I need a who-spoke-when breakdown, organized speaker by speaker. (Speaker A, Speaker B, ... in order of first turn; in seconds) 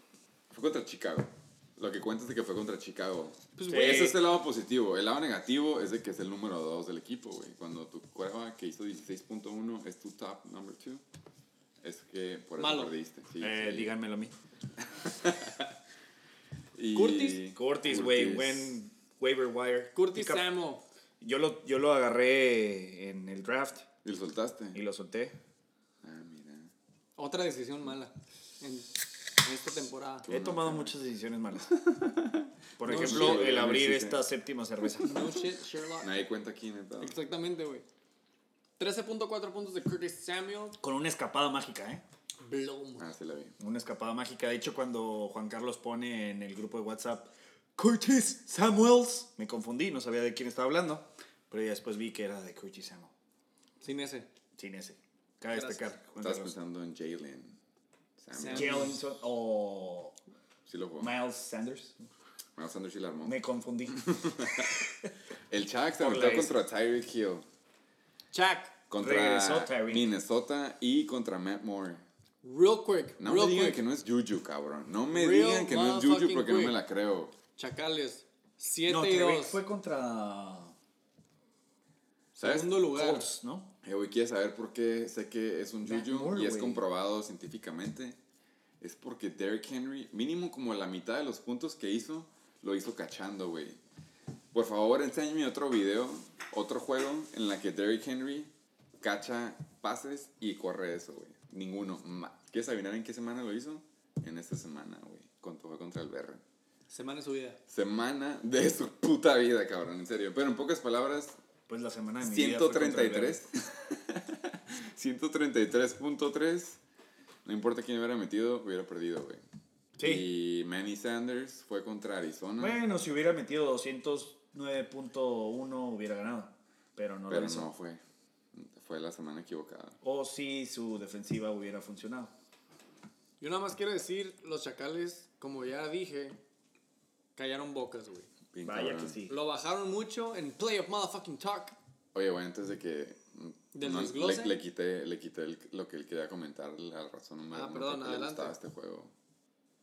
Speaker A: 0.5-11.0, 11.8-13.9, 14.9-15.7, 16.7-18.8, 24.0-24.8, 26.0-26.7, 30.2-30.9, 31.8-34.2, 36.0-37.1, 43.0-43.5, 56.2-57.5, 58.2-59.0, 60.6-61.1, 62.6-63.4, 63.9-64.8, 65.5-67.4, 68.9-72.0, 73.2-77.3, 82.4-82.8, 83.8-88.2, 88.8-93.8, 94.5-106.4, 107.7-111.4, 112.2-116.8, 117.4-119.4, 120.0-122.8, 127.3-128.0, 128.5-130.0, 138.5-139.2, 142.1-149.1
Speaker B: 3.5-4.2, 12.6-12.9, 19.9-20.8, 27.2-30.2, 32.8-33.6, 35.0-36.1, 37.0-37.8, 38.8-40.8, 42.4-43.1, 53.8-54.3, 55.5-55.8, 58.3-59.0, 68.3-68.8, 72.4-73.8, 75.1-76.8, 77.5-79.6, 82.3-83.3, 106.9-107.6, 133.4-136.4, 137.3-138.3, 139.3-141.8, 143.7-144.6, 147.5-148.6
Speaker C: 3.6-4.1, 13.4-14.3, 16.9-20.5, 21.2-23.9, 24.7-25.4, 30.3-31.8, 32.8-35.2, 40.8-42.0, 43.6-53.1, 54.6-56.5, 58.4-60.2, 61.0-62.0, 63.2-64.1, 66.0-66.6, 69.0-70.1, 78.9-80.7, 82.9-83.7, 85.8-86.8, 111.7-113.4, 120.0-120.2, 122.6-127.7, 130.0-132.3, 138.6-139.4